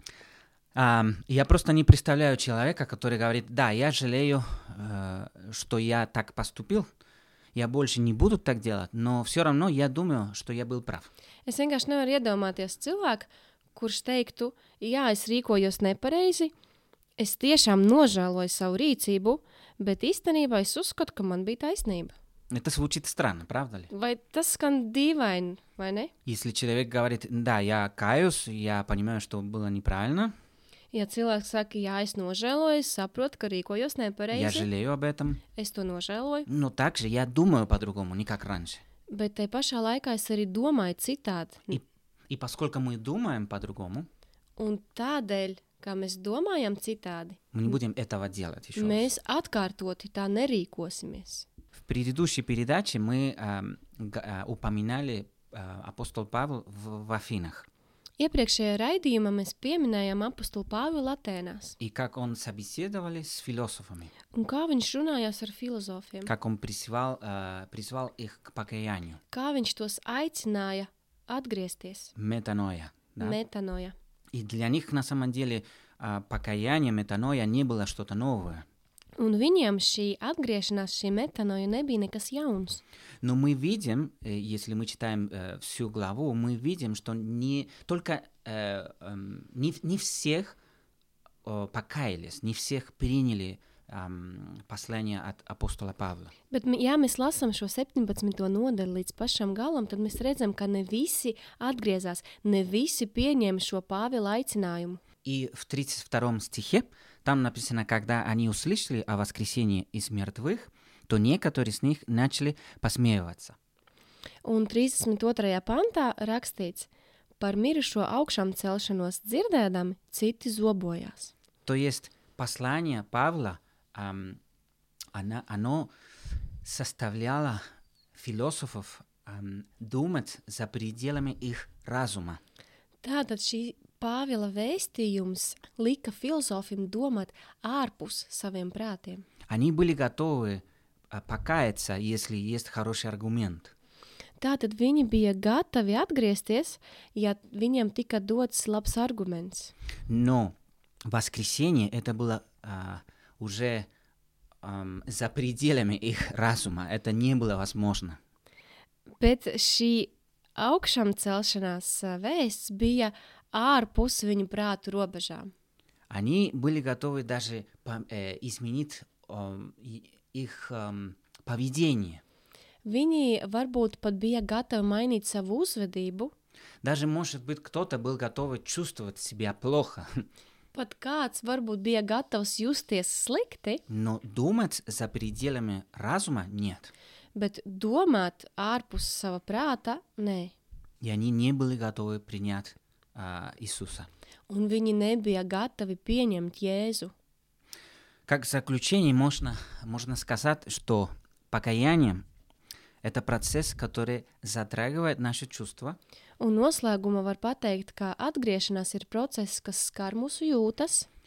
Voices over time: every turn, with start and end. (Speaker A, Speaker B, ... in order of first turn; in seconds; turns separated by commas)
Speaker A: 0.7-6.9, Speaker A: 7.5-11.1, Speaker B: 11.4-16.5, Speaker B: 17.2-22.1, Speaker A: 22.5-23.9, Speaker B: 23.9-26.1, Speaker A: 26.2-30.3, Speaker B: 30.9-34.7, Speaker A: 34.3-35.4, Speaker B: 35.5-36.5, Speaker A: 36.5-38.8, Speaker B: 39.1-41.8, Speaker A: 42.3-44.1, Speaker B: 44.6-47.4, Speaker A: 47.5-49.1, Speaker B: 48.8-51.5, Speaker A: 51.8-57.6, Speaker B: 58.2-61.8, Speaker A: 61.8-64.1, Speaker B: 64.3-66.3, Speaker A: 66.2-69.2, Speaker B: 69.3-72.1, Speaker A: 72.2-73.4, Speaker B: 73.2-73.9, Speaker A: 74.3-78.7, Speaker B: 79.2-82.8, Speaker A: 83.2-90.6, Speaker A: 91.4-96.3, Speaker B: 96.5-105.0, Speaker A: 105.2-113.5, Speaker B: 114.4-121.3, Speaker A: 121.7-124.4, Speaker A: 125.1-125.9, Speaker A: 126.6-127.6, Speaker A: 128.1-132.4, Speaker B: 133.0-139.2, Speaker A: 139.5-143.7, Speaker B: 144.4-149.7, Speaker A: 150.1-150.5, Speaker A: 151.1-153.9, Speaker A: 154.6-158.2, Speaker B: 159.2-165.5, Speaker A: 166.1-172.2, Speaker B: 172.8-176.3, Speaker A: 176.8-180.2, Speaker B: 180.7-183.8, Speaker A: 183.9-186.9, Speaker B: 187.3-190.5, Speaker A: 191.0-194.1, Speaker B: 194.5-197.1, Speaker A: 198.3-202.2, Speaker A: 203.0-206.0, Speaker B: 206.4-211.1